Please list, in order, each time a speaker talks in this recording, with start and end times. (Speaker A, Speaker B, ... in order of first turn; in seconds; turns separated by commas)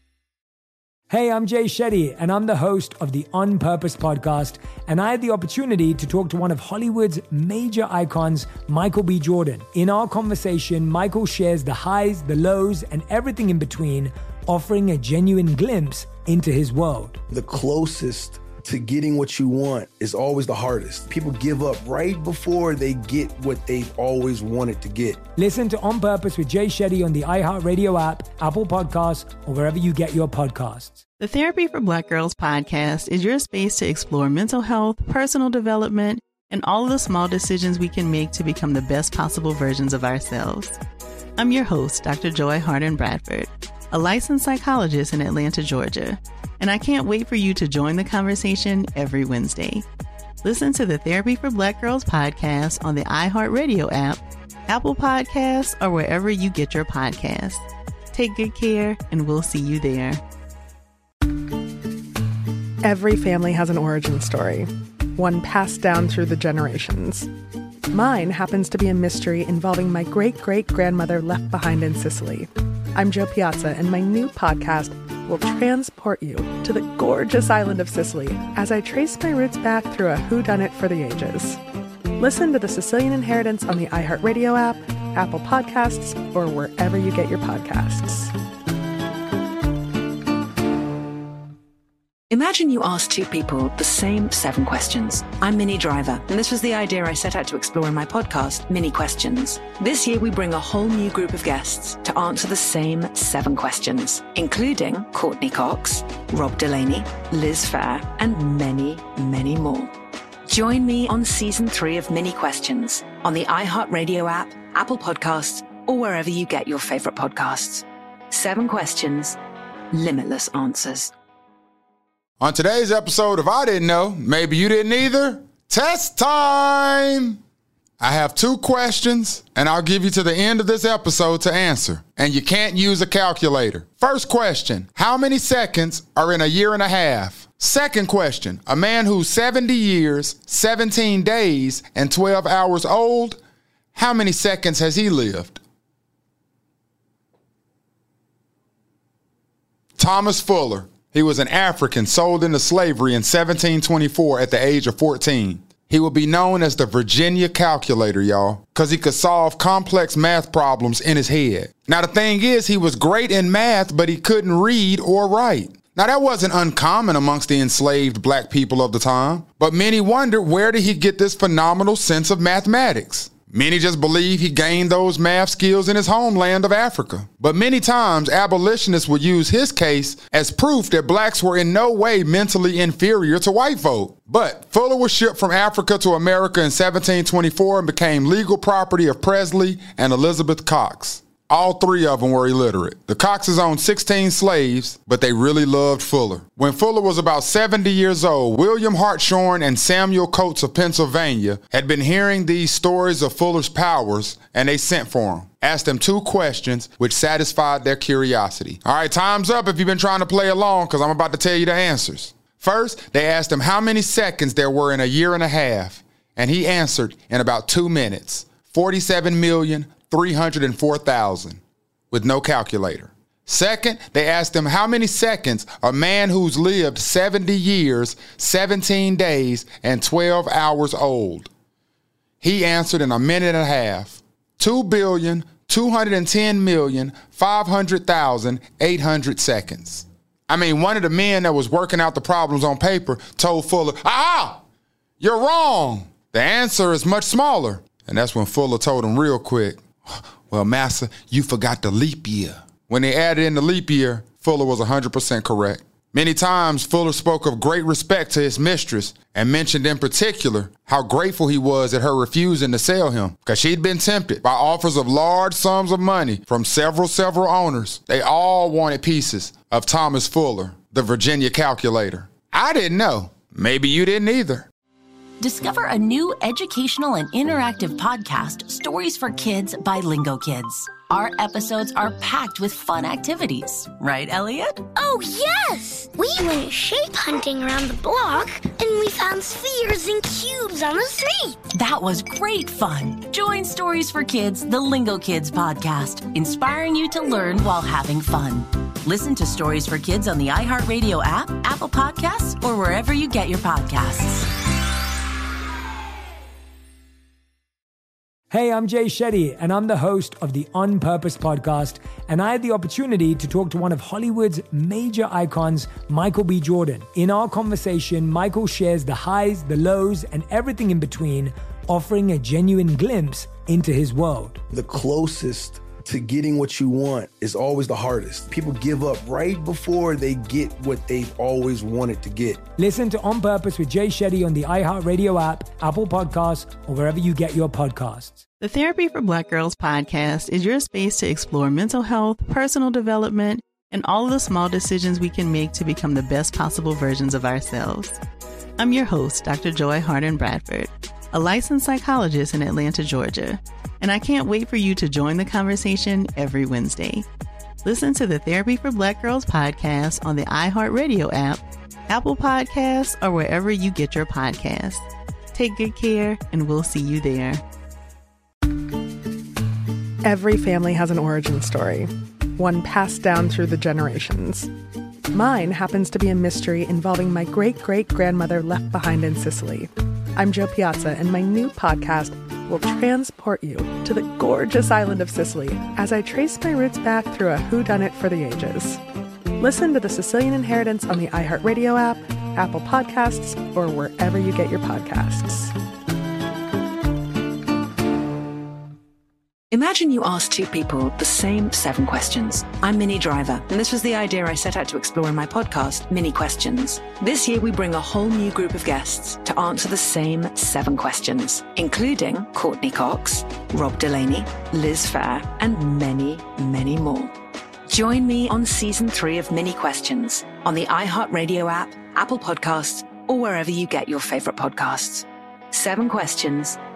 Speaker A: 1.1-17.2, Speaker B: 17.3-25.2, Speaker A: 25.4-31.0, Speaker C: 31.2-40.8, Speaker C: 41.4-49.8, Speaker C: 50.4-60.2, Speaker D: 62.8-67.3, Speaker D: 67.9-81.6, Speaker D: 82.2-88.3, Speaker E: 92.3-109.9, Speaker E: 110.5-119.4, Speaker E: 119.9-121.1, Speaker F: 122.4-127.4, Speaker F: 128.0-143.4, Speaker F: 143.9-145.6, Speaker F: 150.0-231.5, Speaker F: 232.4-244.6, Speaker F: 245.2-274.7, Speaker G: 275.4-284.9, Speaker H: 284.9-291.6, Speaker G: 291.7-304.5, Speaker A: 308.5-324.6, Speaker B: 324.7-332.6, Speaker A: 332.8-338.4, Speaker C: 338.6-348.2, Speaker C: 348.8-357.2, Speaker C: 357.8-367.6, Speaker D: 370.2-374.7, Speaker D: 375.3-389.0, Speaker D: 389.6-395.7, Speaker E: 399.7-417.3, Speaker E: 417.9-426.8